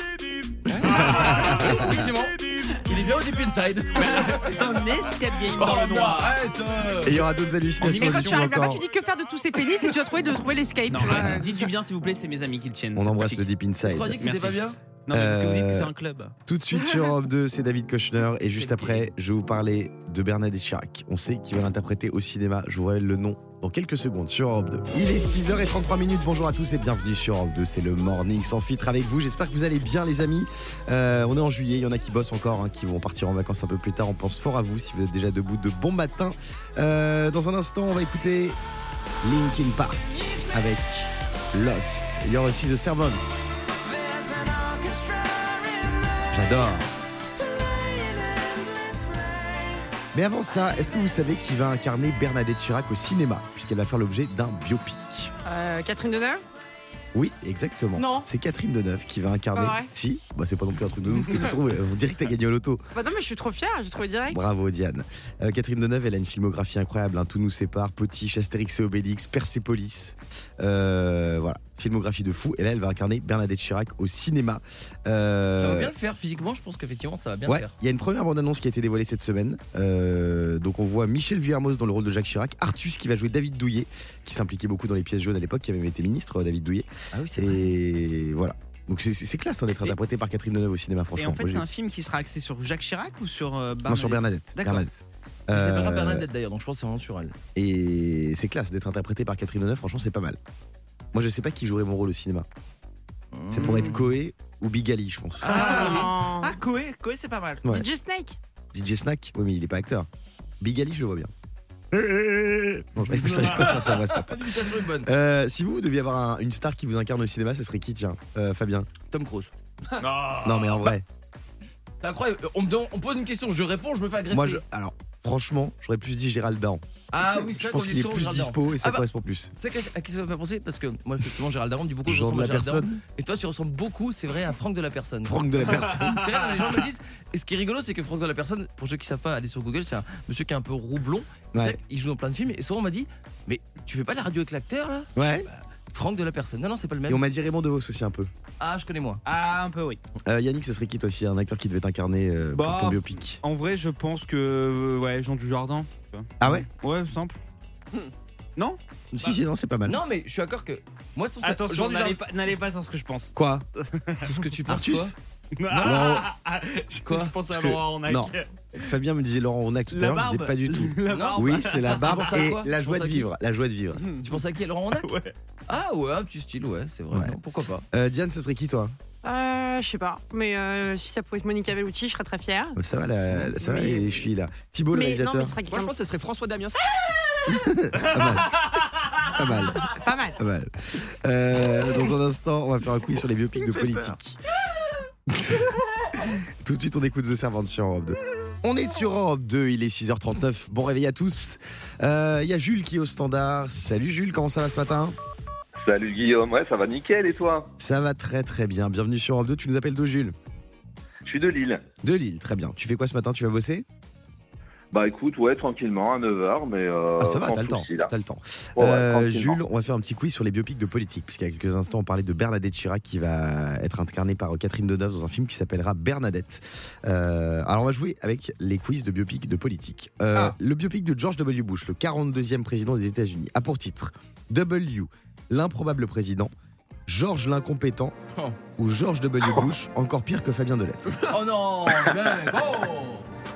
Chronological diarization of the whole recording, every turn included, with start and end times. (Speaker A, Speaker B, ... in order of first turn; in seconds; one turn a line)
Speaker A: 0.7-4.7
Speaker B: 0.9-1.9
Speaker C: 4.0-6.4
Speaker A: 5.5-7.2
Speaker B: 7.0-8.8
Speaker C: 7.8-8.4
Speaker D: 7.8-11.7
Speaker C: 10.9-13.5
Speaker B: 12.9-14.2
Speaker A: 13.8-14.8
Speaker C: 14.2-16.3
Speaker B: 15.1-15.9
Speaker B: 16.4-38.6
Speaker A: 18.4-19.1
Speaker B: 39.2-43.5
Speaker B: 46.3-46.9
Speaker B: 50.1-55.3
Speaker D: 55.4-56.4
Speaker B: 57.1-62.8
Speaker D: 58.0-58.3
Speaker D: 59.5-59.9
Speaker D: 62.9-64.5
Speaker B: 64.3-75.9
Speaker A: 75.6-77.7
Speaker B: 77.5-91.6
Speaker A: 87.1-87.7
Speaker C: 91.2-94.9
Speaker B: 93.8-94.9
Speaker B: 95.5-96.2
Speaker A: 95.5-97.3
Speaker B: 97.5-100.4
Speaker B: 101.1-102.5
Speaker A: 103.3-104.1
Speaker B: 103.5-105.8
Speaker C: 103.6-103.9
Speaker D: 105.4-106.6
Speaker C: 105.5-107.6
Speaker D: 107.7-108.4
Speaker B: 108.7-110.1
Speaker B: 110.6-111.3
Speaker B: 112.9-118.9
Speaker A: 113.1-115.1
Speaker A: 119.1-119.5
Speaker C: 120.0-120.9
Speaker B: 120.4-121.0
Speaker A: 122.0-124.6
Speaker B: 124.3-129.5
Speaker A: 127.1-129.0
Speaker A: 129.6-147.3
Speaker B: 132.1-133.0
Speaker B: 135.2-136.3
Speaker B: 141.5-141.8
Speaker B: 145.2-145.5
Speaker B: 147.1-148.3
Speaker A: 148.6-149.2
Speaker C: 149.2-150.0
Speaker B: 150.2-153.4
Speaker C: 152.5-157.4
Speaker B: 156.4-156.7
Speaker C: 158.6-159.3
Speaker B: 159.1-160.0
Speaker A: 159.8-162.2
Speaker C: 161.4-163.3
Speaker B: 163.3-163.6
Speaker C: 163.9-164.3
Speaker A: 164.2-165.1
Speaker B: 164.7-165.1
Speaker C: 165.6-168.5
Speaker B: 165.7-166.3
Speaker A: 167.0-167.3
Speaker B: 167.5-174.1
Speaker C: 169.9-172.5
Speaker A: 171.1-173.3
Speaker A: 174.2-175.1
Speaker C: 175.0-175.3
Speaker A: 175.7-177.8
Speaker B: 177.1-177.4
Speaker B: 177.9-178.9
Speaker D: 179.2-182.8
Speaker B: 182.8-185.6
Speaker D: 183.6-184.2
Speaker D: 184.9-185.9
Speaker E: 185.6-187.1
Speaker B: 187.5-188.6
Speaker B: 189.2-194.4
Speaker D: 189.9-190.4
Speaker E: 193.6-194.1
Speaker B: 195.3-195.7
Speaker B: 196.3-205.2
Speaker F: 205.8-207.7
Speaker B: 207.8-210.3
Speaker F: 211.2-211.8
Speaker B: 212.0-213.8
Speaker F: 214.9-218.1
Speaker B: 217.2-236.5
Speaker F: 218.8-219.6
Speaker B: 237.1-238.2
Speaker B: 238.8-241.2
Speaker A: 241.2-243.3